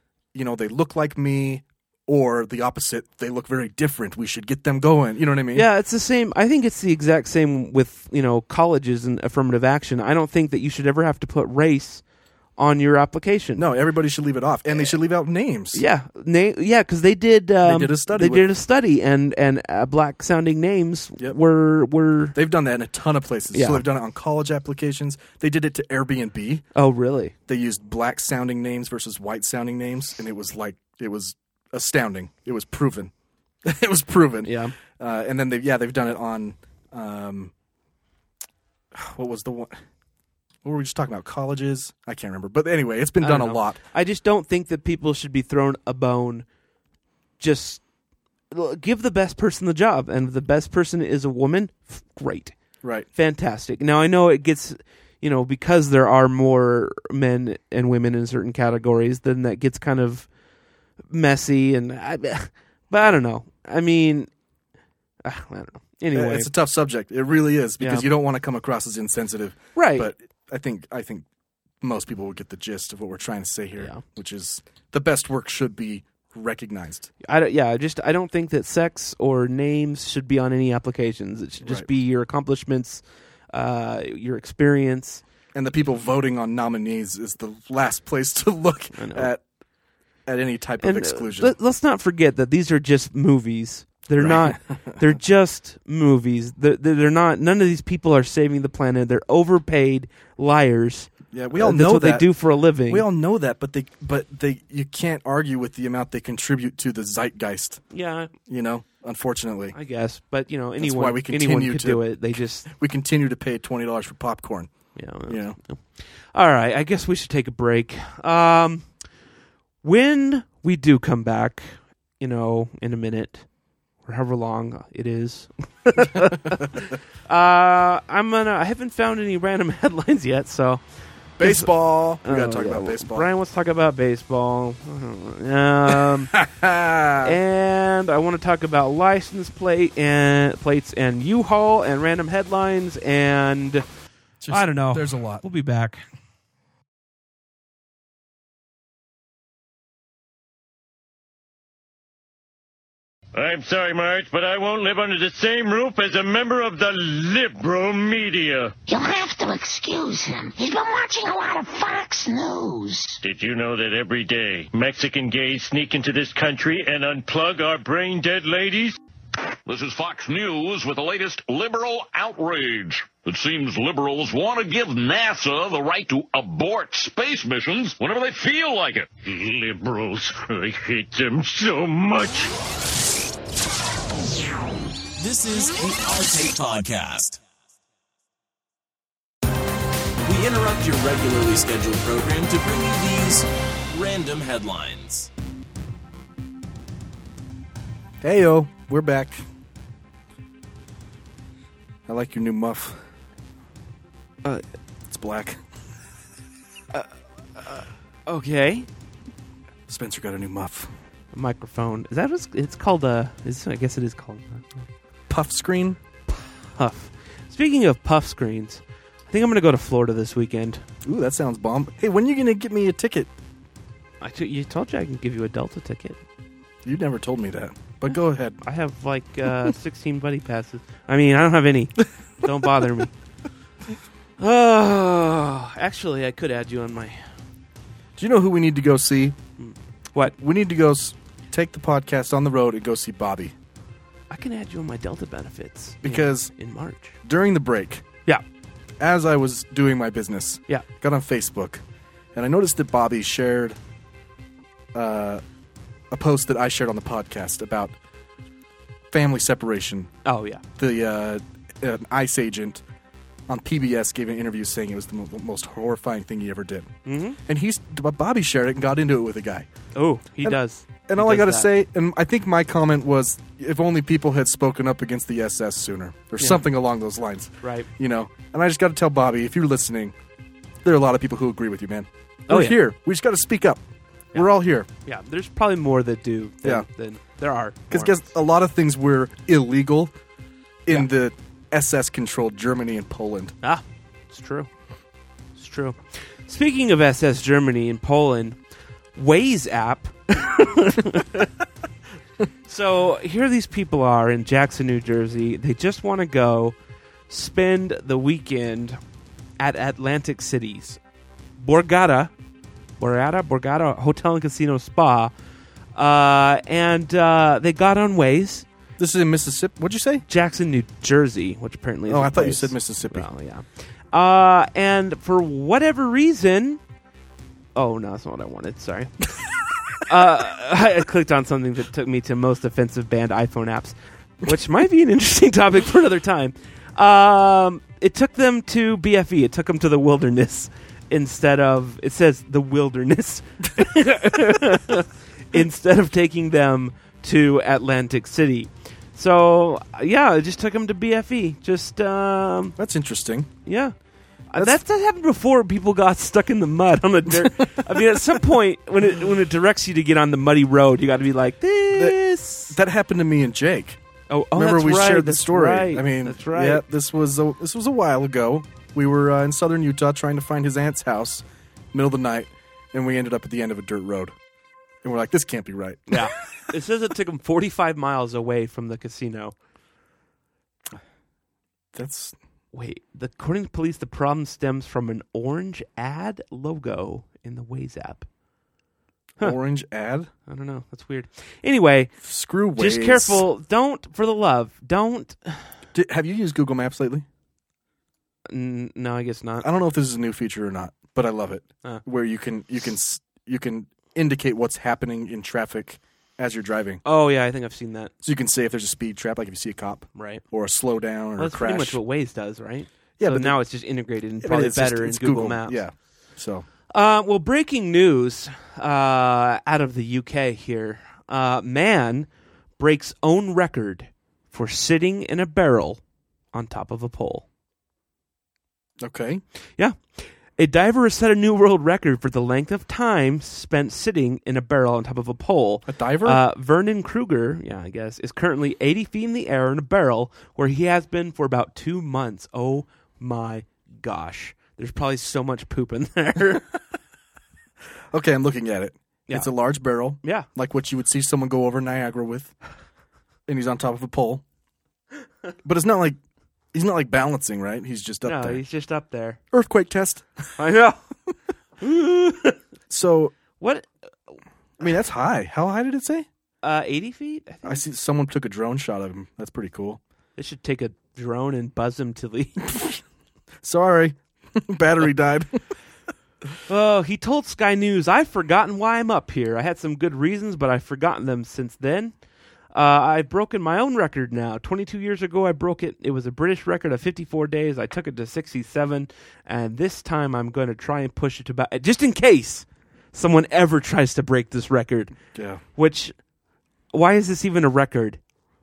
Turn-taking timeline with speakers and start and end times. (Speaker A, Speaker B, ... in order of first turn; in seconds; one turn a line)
Speaker A: 0.3-5.7
Speaker B: 5.5-12.0
Speaker B: 12.6-13.6
Speaker A: 13.6-15.8
Speaker B: 15.7-22.4
Speaker A: 17.6-18.4
Speaker A: 22.3-26.6
Speaker B: 23.5-23.8
Speaker B: 26.7-27.3
Speaker A: 27.5-33.1
Speaker A: 33.6-37.5
Speaker B: 34.4-34.7
Speaker A: 38.9-39.7
Speaker A: 40.6-43.8
Speaker B: 43.2-46.4
Speaker B: 47.4-47.8
Speaker B: 48.5-52.6
Speaker B: 53.1-60.3
Speaker B: 61.1-64.3
Speaker B: 65.2-66.5
Speaker A: 66.1-71.2
Speaker B: 67.8-68.1
Speaker B: 69.8-70.1
Speaker A: 71.8-77.1
Speaker B: 77.2-83.0
Speaker B: 83.5-85.2
Speaker A: 85.5-89.4
Speaker B: 89.0-89.3
Speaker A: 90.2-91.5
Speaker B: 90.8-103.0
Speaker A: 94.2-95.0
Speaker A: 101.3-102.3
Speaker A: 102.9-107.8
Speaker B: 107.9-108.3
Speaker A: 108.5-109.8
Speaker B: 109.7-112.7
Speaker A: 110.8-112.1
Speaker A: 112.7-114.7
Speaker B: 115.0-118.9
Speaker A: 115.2-115.6
Speaker B: 119.8-121.7
Speaker B: 122.2-123.4
Speaker B: 124.0-130.8
Speaker A: 126.2-126.7
Speaker A: 131.4-133.3
Speaker B: 131.4-131.7
Speaker B: 132.2-136.3
Speaker A: 135.9-137.3
Speaker B: 137.2-143.8
Speaker A: 144.4-145.4
Speaker B: 144.5-146.0
Speaker C: 153.3-158.8
Speaker D: 158.9-163.2
Speaker C: 163.2-169.0
Speaker E: 169.6-179.2
Speaker C: 179.2-182.5
Speaker F: 185.2-187.4
Speaker F: 190.2-195.3
Speaker A: 198.2-199.4
Speaker A: 202.1-203.0
Speaker A: 205.1-205.6
Speaker B: 206.9-208.9
Speaker A: 209.9-210.9
Speaker B: 211.3-214.8
Speaker A: 215.3-216.0
Speaker B: 216.3-220.8
Speaker A: 221.0-223.3
Speaker B: 224.2-226.2
Speaker A: 226.8-228.6
Speaker B: 228.6-233.1
Speaker B: 234.4-237.2
Speaker A: 238.2-239.4
Speaker B: 239.6-240.3
Speaker A: 240.2-243.5
Speaker B: 244.3-247.1
Speaker A: 246.0-246.5
Speaker A: 247.2-248.0
Speaker A: 249.0-251.8
Speaker A: 252.3-253.8
Speaker A: 254.9-255.4
Speaker A: 256.1-257.9
Speaker A: 259.1-260.1
Speaker B: 260.2-260.6
Speaker A: 260.8-262.8
Speaker A: 263.5-269.7
Speaker B: 267.1-267.4
Speaker B: 269.9-271.7
Speaker A: 270.4-280.1
Speaker B: 277.6-277.9
Speaker A: 280.8-283.8
Speaker B: 282.5-282.8
Speaker A: 284.3-284.9
Speaker B: 285.0-288.2
Speaker A: 287.9-290.1
Speaker A: 290.9-293.5
Speaker B: 293.6-294.7
Speaker B: 295.6-298.6
Speaker B: 299.1-301.5
Speaker B: 302.7-306.7
Speaker B: 307.3-309.0
Speaker B: 309.6-311.0
Speaker B: 311.6-312.3
Speaker B: 313.0-315.3
Speaker B: 315.9-318.6
Speaker A: 319.0-320.2
Speaker B: 320.3-326.8
Speaker A: 322.1-323.3
Speaker B: 327.7-329.1
Speaker B: 330.0-352.8
Speaker A: 343.9-344.4
Speaker A: 352.8-353.5
Speaker B: 353.6-353.9
Speaker B: 354.5-362.8
Speaker A: 357.3-358.2
Speaker A: 361.9-364.0
Speaker B: 364.3-366.8
Speaker A: 364.5-374.3
Speaker A: 375.0-376.3
Speaker B: 376.1-379.5
Speaker A: 381.9-382.4
Speaker B: 382.7-388.3
Speaker A: 389.4-390.3
Speaker B: 390.5-392.2
Speaker A: 392.2-393.4
Speaker B: 392.8-395.6
Speaker A: 395.9-397.2
Speaker B: 398.5-399.7
Speaker A: 399.6-407.0
Speaker B: 407.0-408.1
Speaker A: 408.2-412.0
Speaker B: 410.1-410.4
Speaker B: 411.4-415.8
Speaker A: 413.2-413.6
Speaker A: 414.4-416.6
Speaker B: 416.9-422.3
Speaker B: 422.8-426.0
Speaker B: 426.5-427.4
Speaker A: 429.0-429.4
Speaker B: 430.6-446.6
Speaker A: 435.9-436.4
Speaker A: 448.1-452.5
Speaker B: 449.3-449.5
Speaker B: 450.2-450.5
Speaker A: 453.5-454.4
Speaker A: 455.6-456.2
Speaker A: 456.7-458.6
Speaker B: 458.2-459.4
Speaker A: 459.5-460.5
Speaker B: 460.6-461.0
Speaker B: 461.8-462.6
Speaker A: 462.9-463.3
Speaker B: 463.6-463.9
Speaker A: 464.8-466.3
Speaker B: 466.6-467.8
Speaker A: 467.6-470.0
Speaker B: 470.4-472.7
Speaker A: 472.7-472.9
Speaker A: 473.6-475.6
Speaker B: 476.7-482.1
Speaker B: 482.7-495.1
Speaker A: 495.3-495.6
Speaker B: 495.8-496.1
Speaker B: 496.9-498.2